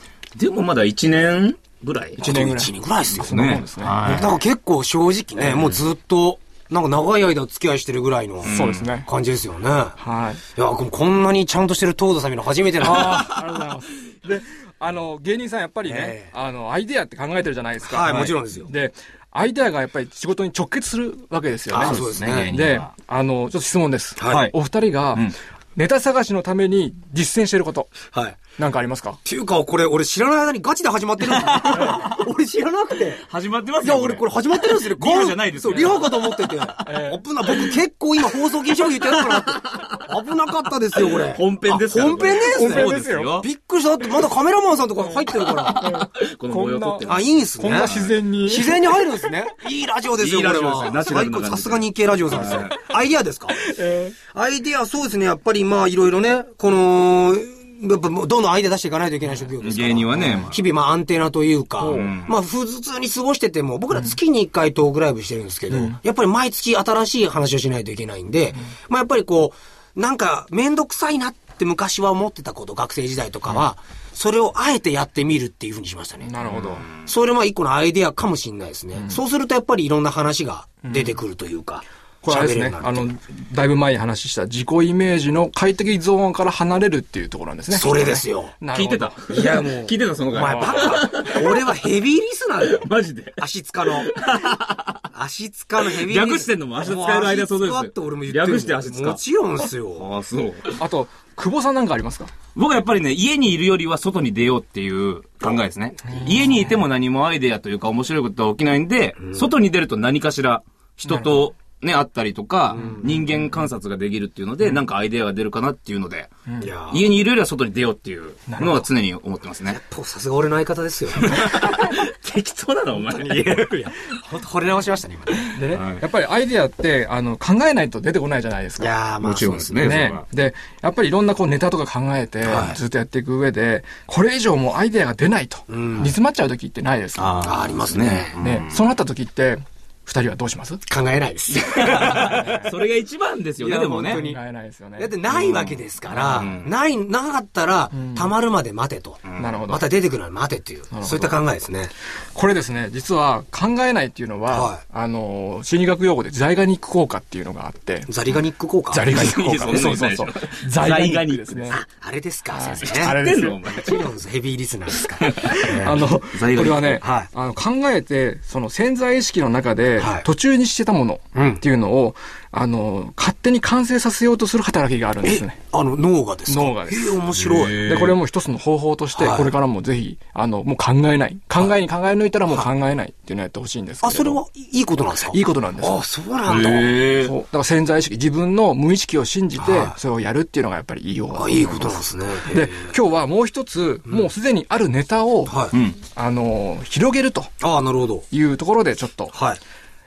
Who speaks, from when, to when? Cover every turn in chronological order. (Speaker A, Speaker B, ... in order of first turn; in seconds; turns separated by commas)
Speaker A: 0.4-2.2, Speaker B: 2.2-3.5, Speaker C: 2.2-4.3, Speaker A: 3.1-4.4, Speaker B: 4.0-8.5, Speaker C: 5.4-5.7, Speaker A: 8.4-8.9, Speaker C: 8.4-9.1, Speaker B: 9.1-10.0, Speaker C: 10.0-10.4, Speaker B: 10.5-13.3, Speaker C: 12.8-27.9, Speaker B: 15.8-16.3, Speaker B: 17.8-18.7, Speaker B: 21.7-22.6, Speaker A: 21.7-22.9, Speaker B: 24.2-24.5, Speaker A: 24.2-24.5, Speaker B: 28.1-28.4, Speaker C: 28.6-29.2, Speaker B: 29.2-33.2, Speaker A: 31.3-31.9, Speaker A: 33.1-36.7, Speaker B: 33.8-45.9, Speaker C: 36.8-37.2, Speaker A: 39.2-39.9, Speaker A: 41.0-43.5, Speaker C: 42.4-43.4, Speaker C: 45.1-49.2, Speaker A: 45.4-48.2, Speaker B: 47.0-76.3, Speaker A: 50.2-52.8, Speaker C: 53.6-54.1, Speaker A: 59.5-60.6, Speaker C: 61.8-62.1, Speaker A: 61.8-62.3, Speaker C: 65.7-66.0, Speaker C: 76.2-76.8, Speaker A: 76.4-76.9, Speaker B: 76.8-83.1, Speaker C: 79.0-79.2, Speaker C: 82.2-89.2, Speaker B: 87.7-88.5, Speaker A: 88.7-91.7, Speaker B: 89.3-94.1, Speaker C: 90.4-91.1, Speaker A: 92.6-95.0, Speaker B: 95.1-100.1, Speaker A: 95.8-99.2, Speaker A: 99.9-100.8, Speaker C: 100.7-102.3, Speaker A: 102.5-116.3, Speaker B: 109.2-109.5, Speaker C: 111.0-111.5, Speaker B: 112.8-113.1, Speaker C: 113.0-113.3, Speaker B: 116.6-117.2, Speaker A: 116.9-119.8, Speaker C: 118.5-118.8, Speaker B: 119.7-121.4, Speaker A: 121.2-123.9, Speaker B: 123.0-125.5, Speaker C: 125.5-128.9, Speaker A: 125.7-126.0, Speaker B: 128.8-129.9, Speaker A: 129.2-130.2, Speaker C: 129.8-137.5, Speaker B: 132.4-132.8, Speaker B: 135.7-136.1, Speaker A: 137.2-138.8, Speaker B: 137.4-138.4, Speaker C: 138.4-140.8, Speaker B: 140.9-142.5, Speaker A: 141.5-144.3, Speaker C: 141.9-142.8, Speaker B: 143.6-144.4, Speaker C: 144.0-145.1, Speaker B: 145.0-151.9, Speaker A: 145.3-146.7, Speaker C: 146.1-146.5, Speaker C: 147.9-148.3, Speaker A: 149.2-149.6, Speaker C: 149.4-149.8, Speaker C: 150.9-151.3, Speaker C: 152.3-158.2, Speaker B: 154.5-154.8, Speaker B: 158.1-159.2, Speaker C: 158.9-161.8, Speaker A: 159.1-161.8, Speaker B: 161.7-163.1, Speaker C: 162.5-163.7, Speaker A: 162.8-164.1, Speaker B: 163.7-166.1, Speaker A: 165.2-167.0, Speaker C: 165.4-175.6, Speaker B: 167.0-167.3, Speaker B: 170.0-170.3, Speaker B: 171.3-171.6, Speaker B: 175.2-177.9, Speaker C: 176.5-177.2, Speaker A: 177.3-178.2, Speaker C: 177.8-184.4, Speaker B: 179.2-179.5, Speaker B: 184.0-187.0, Speaker C: 185.0-186.0, Speaker A: 186.4-187.3, Speaker C: 187.1-197.5, Speaker B: 189.6-190.0, Speaker B: 191.3-192.7, Speaker B: 195.5-195.7, Speaker A: 195.7-196.0, Speaker B: 197.6-198.3, Speaker C: 198.3-199.3, Speaker B: 199.3-199.6